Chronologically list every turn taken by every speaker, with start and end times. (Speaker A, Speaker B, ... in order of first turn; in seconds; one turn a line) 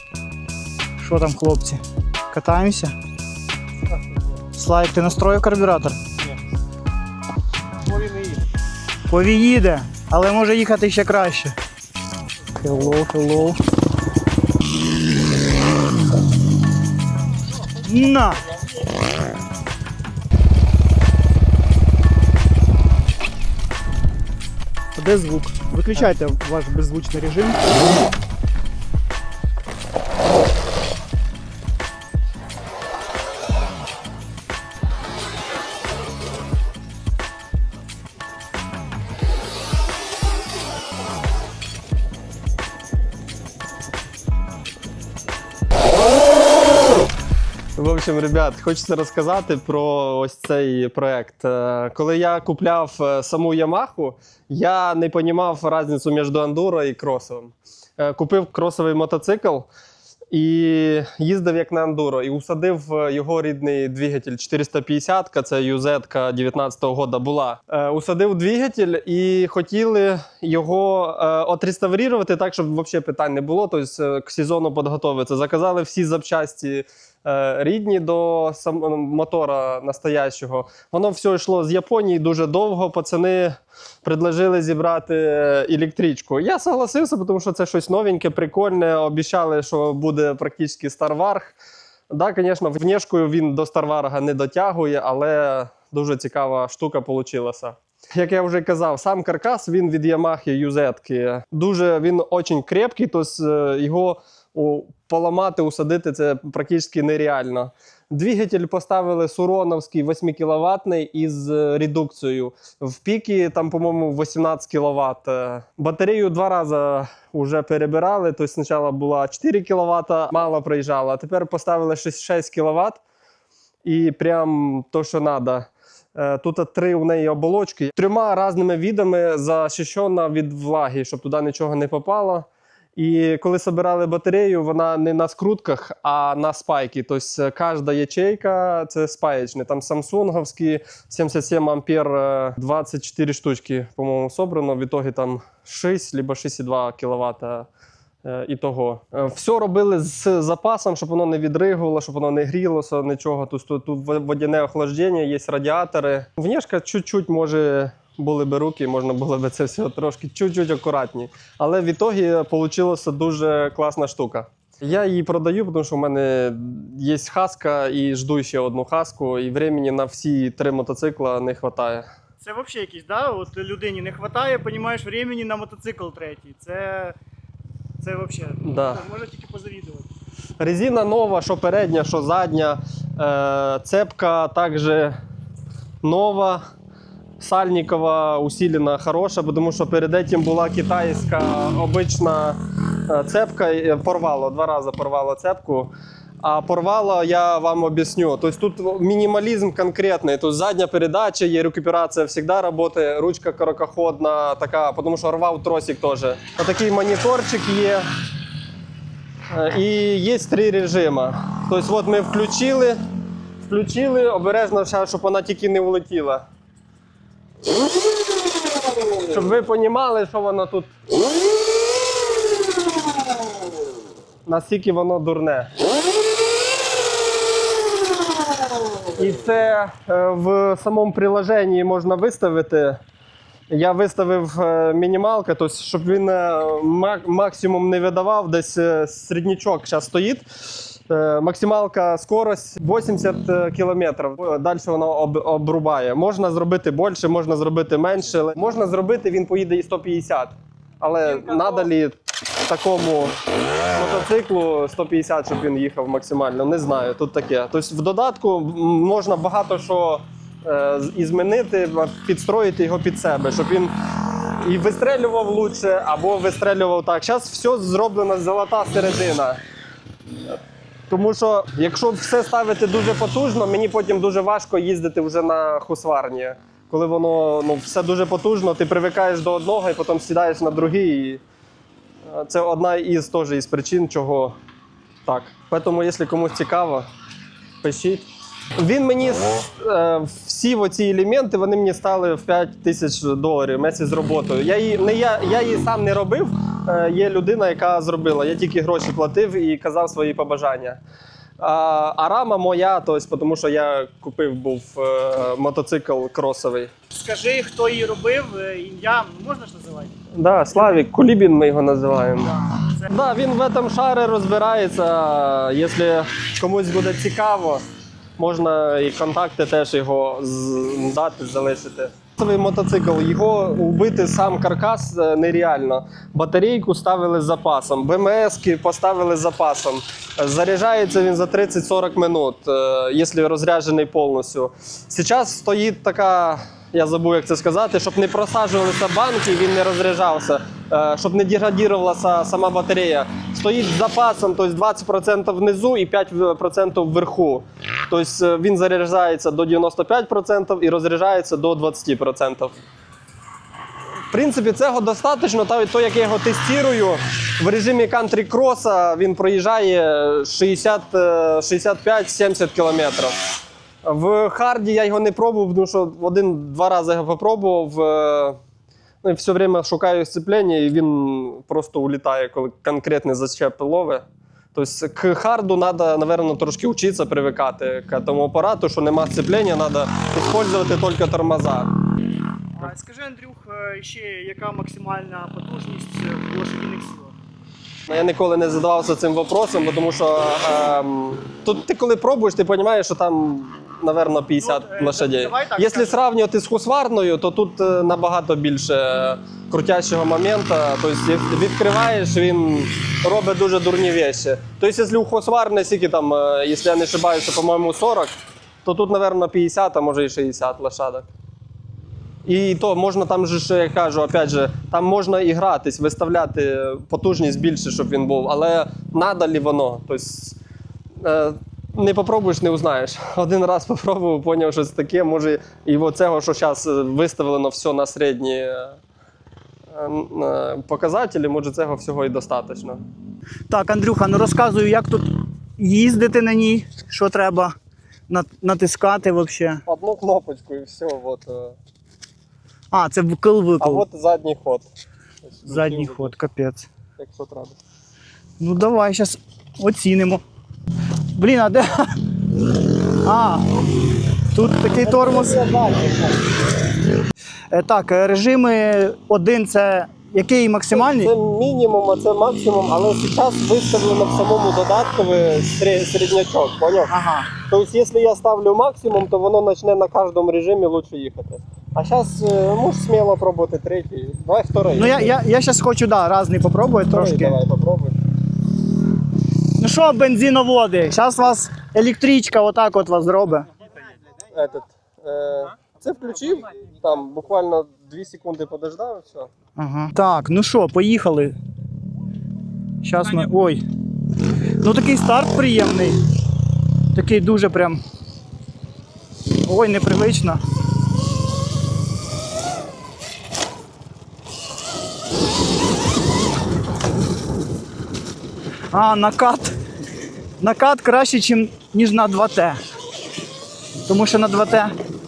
Speaker A: 1.0-2.9
Speaker A: 4.5-6.0
Speaker B: 7.9-8.2
Speaker A: 9.1-11.6
Speaker A: 12.6-13.6
Speaker A: 17.8-18.4
Speaker A: 24.9-27.6
Speaker B: 47.8-59.7
Speaker B: 60.3-91.6
Speaker B: 92.1-123.0
Speaker B: 123.8-147.7
Speaker B: 148.2-172.1
Speaker A: 172.4-177.2
Speaker A: 178.0-180.1
Speaker B: 178.7-179.0
Speaker B: 180.6-185.2
Speaker B: 186.0-186.6
Speaker B: 187.4-208.1
Speaker B: 209.5-213.0
Speaker B: 213.6-216.4
Speaker B: 219.2-220.9
Speaker B: 224.5-225.7
Speaker B: 229.1-233.0
Speaker B: 233.7-253.4
Speaker B: 253.9-263.9
Speaker B: 264.6-269.6
Speaker B: 271.1-281.4
Speaker B: 282.3-284.6
Speaker B: 285.2-287.1
Speaker B: 287.8-301.0
Speaker B: 301.6-306.9
Speaker A: 307.1-310.1
Speaker B: 310.4-312.6
Speaker A: 310.8-311.1
Speaker A: 312.4-313.1
Speaker B: 313.1-317.8
Speaker B: 318.4-352.8
Speaker B: 354.3-363.4
Speaker B: 364.0-368.6
Speaker B: 369.2-381.9
Speaker A: 382.8-387.4
Speaker B: 388.1-411.3
Speaker A: 394.6-396.2
Speaker B: 412.4-420.6
Speaker B: 421.2-429.0
Speaker B: 429.9-433.0
Speaker A: 433.7-437.7
Speaker A: 438.3-439.8
Speaker B: 439.9-441.8
Speaker A: 442.9-444.1
Speaker B: 443.8-444.9
Speaker B: 445.4-446.4
Speaker A: 445.7-446.9
Speaker B: 447.2-447.8
Speaker A: 448.6-450.4
Speaker A: 451.4-452.2
Speaker A: 453.2-453.6
Speaker A: 454.5-455.6
Speaker B: 455.0-456.5
Speaker A: 457.7-461.3
Speaker B: 460.9-475.4
Speaker A: 467.1-467.5
Speaker A: 475.0-477.6
Speaker B: 477.1-478.2
Speaker A: 479.8-483.7
Speaker B: 484.5-489.5
Speaker A: 489.8-491.6
Speaker A: 493.0-493.8
Speaker A: 494.8-496.2
Speaker A: 497.1-498.0
Speaker A: 499.6-500.6
Speaker A: 508.9-509.8
Speaker A: 510.6-512.8
Speaker A: 514.1-514.9